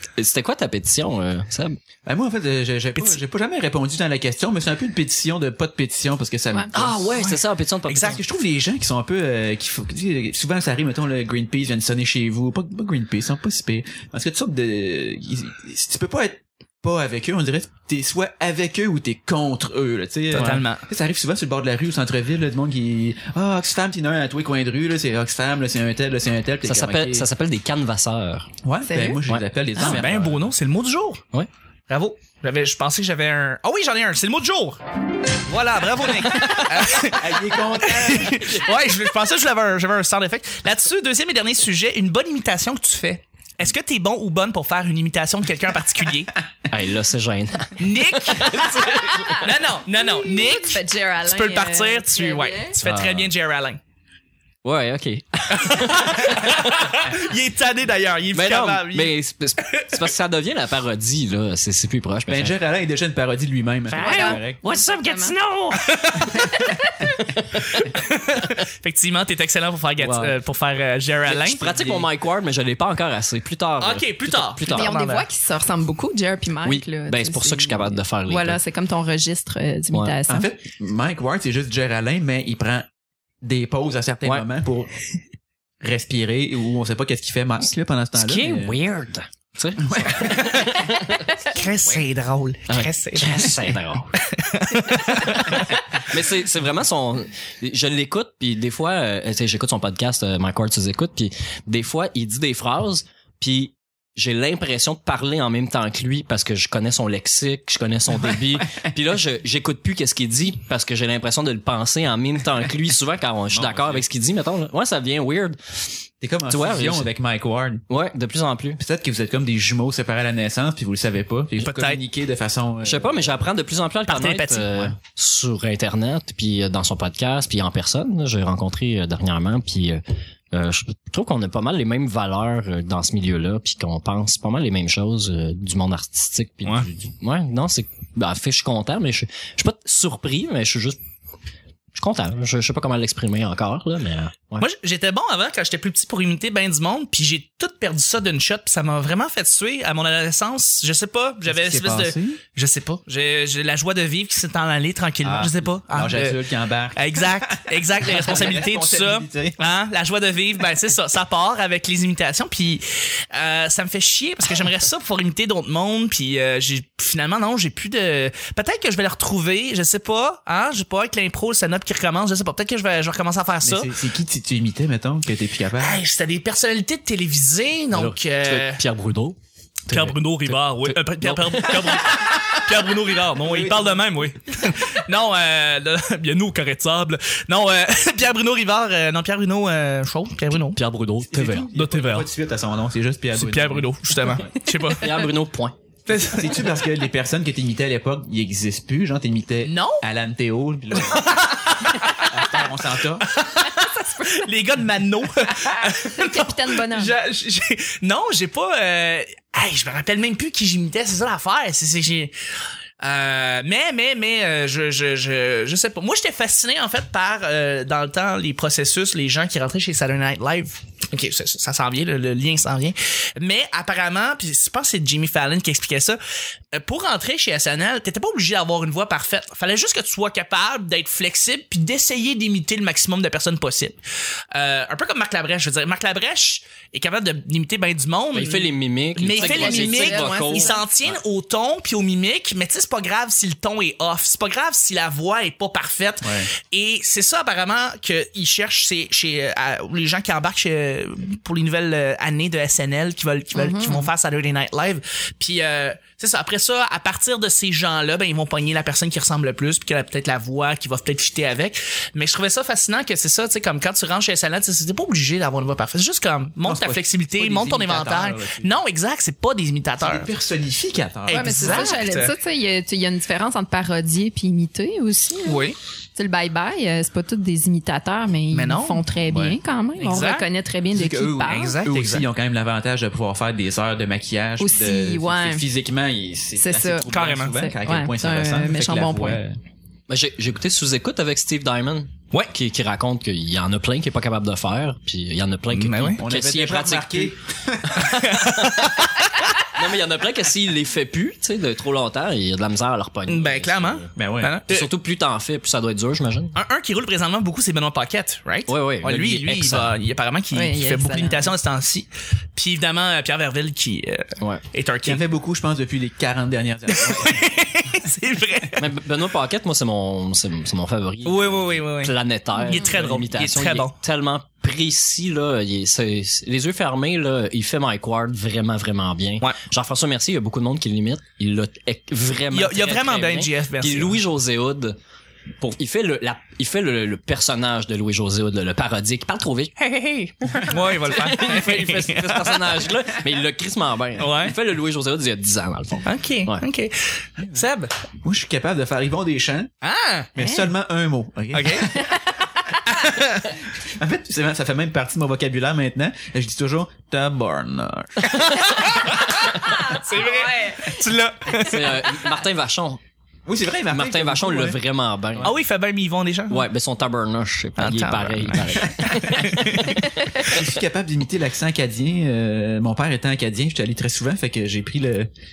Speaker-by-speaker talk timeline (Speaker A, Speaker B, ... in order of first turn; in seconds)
Speaker A: 0.2-1.8, 6.7-8.2, 20.3-20.6, 26.6-28.5, 29.3-30.0, 46.7-49.1, 52.8-53.3, 54.6-56.9, 58.3-62.6, 63.9-66.4, 67.0-67.7, 71.4-74.9, 76.6-78.6, 79.9-80.2, 88.1-91.3, 92.7-94.1, 96.0-117.1, 117.9-118.8, 122.8-130.0, 130.5-141.0, 141.9-144.7, 177.9-179.4, 179.9-182.2, 190.7-191.7, 195.0-195.8, 238.3-240.8, 290.1-297.3, 297.9-298.9, 299.6-304.1, 304.7-306.5, 308.7-309.9, 318.8-335.0, 335.6-346.6, 361.6-363.0, 363.9-365.5, 366.5-370.3
Speaker B: 2.0-7.3, 7.9-27.3, 28.6-30.5, 36.9-38.7, 62.3-64.6, 70.0-70.3, 71.2-72.1, 80.3-82.9, 83.4-84.9, 85.8-88.8, 89.8-90.8, 91.5-92.0, 113.5-114.0, 116.2-117.8, 118.8-123.4, 151.4-152.4, 155.2-159.6, 173.6-176.0, 183.4-184.1, 191.2-194.4, 196.1-201.4, 202.1-203.3, 246.2-246.5, 266.6-268.8, 270.0-272.0, 279.3-279.6, 280.9-289.6, 296.2-298.1, 304.1-304.6, 315.0-317.6, 347.4-347.6, 348.2-349.7, 350.4-352.0, 353.6-358.5, 363.4-364.8, 370.4-375.3
Speaker C: 2.9-3.2, 20.3-20.8, 29.8-31.2, 31.9-34.8, 35.5-46.3, 47.8-53.8, 55.5-59.1, 59.7-60.0, 65.8-66.6, 67.7-71.6, 73.8-75.3, 90.3-90.7, 91.5-95.8, 121.6-122.0, 124.1-124.9, 144.6-173.9, 175.8-178.8, 179.9-190.8, 191.7-192.3, 193.3-195.2, 196.1-196.7, 199.6-200.0, 200.9-202.3, 203.3-212.3, 213.0-226.2, 226.7-234.0, 234.5-270.3, 271.2-272.3, 275.4-275.8, 278.5-279.1, 280.0-280.5, 281.4-282.3, 287.1-287.6, 295.7-296.2, 298.0-299.6, 303.3-304.9, 306.5-315.2, 316.9-318.9, 321.2-323.9, 332.5-334.2, 340.6-342.7, 344.2-344.6, 346.1-347.9, 349.8-350.4, 351.5-352.1, 352.8-353.6, 358.3-362.1, 365.4-366.6, 367.8-370.5
Speaker D: 28.8-29.2, 48.9-52.8, 64.0-65.4, 66.3-67.1, 74.7-80.5, 203.6-204.5, 205.6-207.2, 239.3-240.8, 253.5-254.1, 271.3-275.6, 276.1-281.8, 284.6-285.6, 286.6-289.4, 310.5-311.5, 322.6-322.9, 351.8-352.6, 358.5-359.0, 359.6-360.9, 369.9-370.6